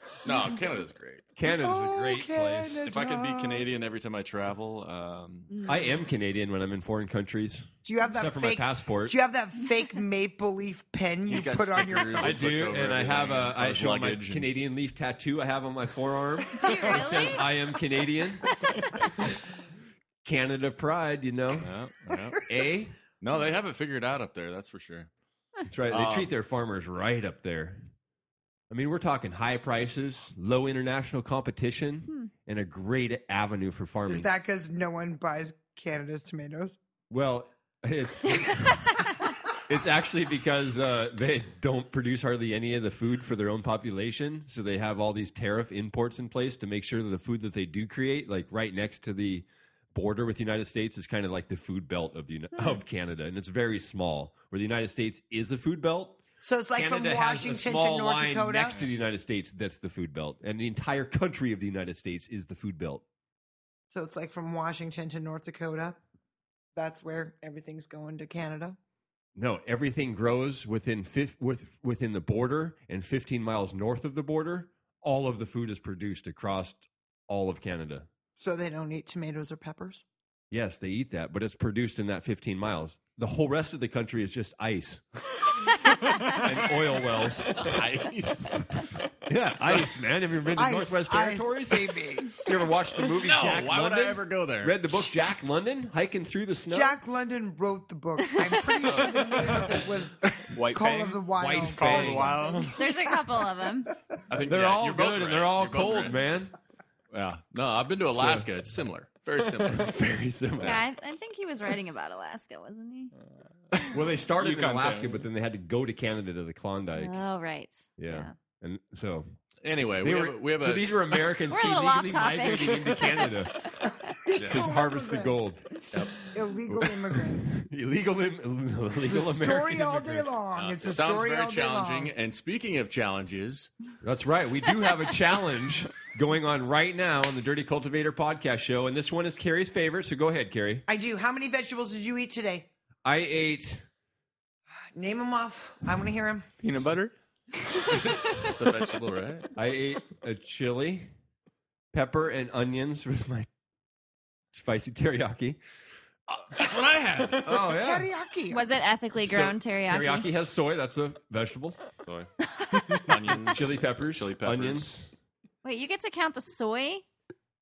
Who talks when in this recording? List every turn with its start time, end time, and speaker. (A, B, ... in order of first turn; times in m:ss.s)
0:00.2-0:01.3 A
0:01.4-0:02.8 B
0:01.4-0:03.7 C
0:02.8-0:05.6 A
0:05.5-0:05.8 D
0:05.7-0:09.2 B
0:07.8-0:12.6 C
0:11.3-0:14.5 A
0:12.2-0:19.3 B
0:16.5-0:17.5 D
0:20.2-0:21.7 B
0:21.6-0:22.4 A
0:22.5-0:23.0 B
0:23.2-0:25.1 A
0:25.7-0:27.9 B
0:25.9-0:26.3 A
0:28.7-0:34.3 B
0:34.1-0:36.8 C
0:37.1-0:39.1 B
0:39.7-0:56.2 B
0:56.4-0:58.8 C
0:56.7-1:03.0 B
1:03.9-1:06.0 C
1:06.8-1:08.8 C
1:09.4-1:18.1 B
1:18.4-1:20.0 C
1:20.5-1:25.1 B
1:26.2-1:26.7 A
1:26.3-1:27.8 B
1:27.5-1:29.0 A
1:29.3-1:37.0 B
1:29.6-1:30.0 A
1:30.5-1:32.4 C
1:33.1-1:35.1 A
1:36.7-1:43.2 C
1:38.9-1:39.6 A
1:40.5-1:42.8 E
1:41.4-1:42.6 B
1:42.7-1:43.9 D
1:44.3-1:46.3 A
1:44.4-1:46.5 B
1:47.1-1:50.0 A
1:48.1-1:48.5 B
1:49.6-1:50.8 B
1:50.6-1:53.1 D
1:53.9-1:57.2 B
1:54.4-1:55.2 E
1:57.0-1:58.3 D
1:58.0-1:59.3 B
1:59.6-2:01.0 A
2:00.0-2:03.6 B
2:01.5-2:04.2 D
2:04.2-2:05.4 C
2:04.4-2:04.8 A
2:04.5-2:05.8 B
2:05.9-2:07.0 A
2:06.3-2:07.6 C
2:07.6-2:10.4 B
2:09.0-2:12.1 C
2:10.5-2:13.7 A
2:14.0-2:20.8 B
2:20.9-2:22.7 C
2:23.0-2:23.9 B
2:25.0-2:26.5 C
2:26.6-2:27.1 E
2:28.1-2:29.5 A
2:29.6-2:31.1 B
2:31.9-2:33.5 B
2:34.5-2:35.6 B
2:36.5-2:37.6 A
2:37.4-2:38.1 B
2:37.6-2:38.6 C
2:38.5-2:40.3 D
2:39.2-2:41.8 B
2:42.0-2:42.3 A
2:42.9-2:44.9 A
2:43.5-2:45.1 B
2:45.6-2:47.1 D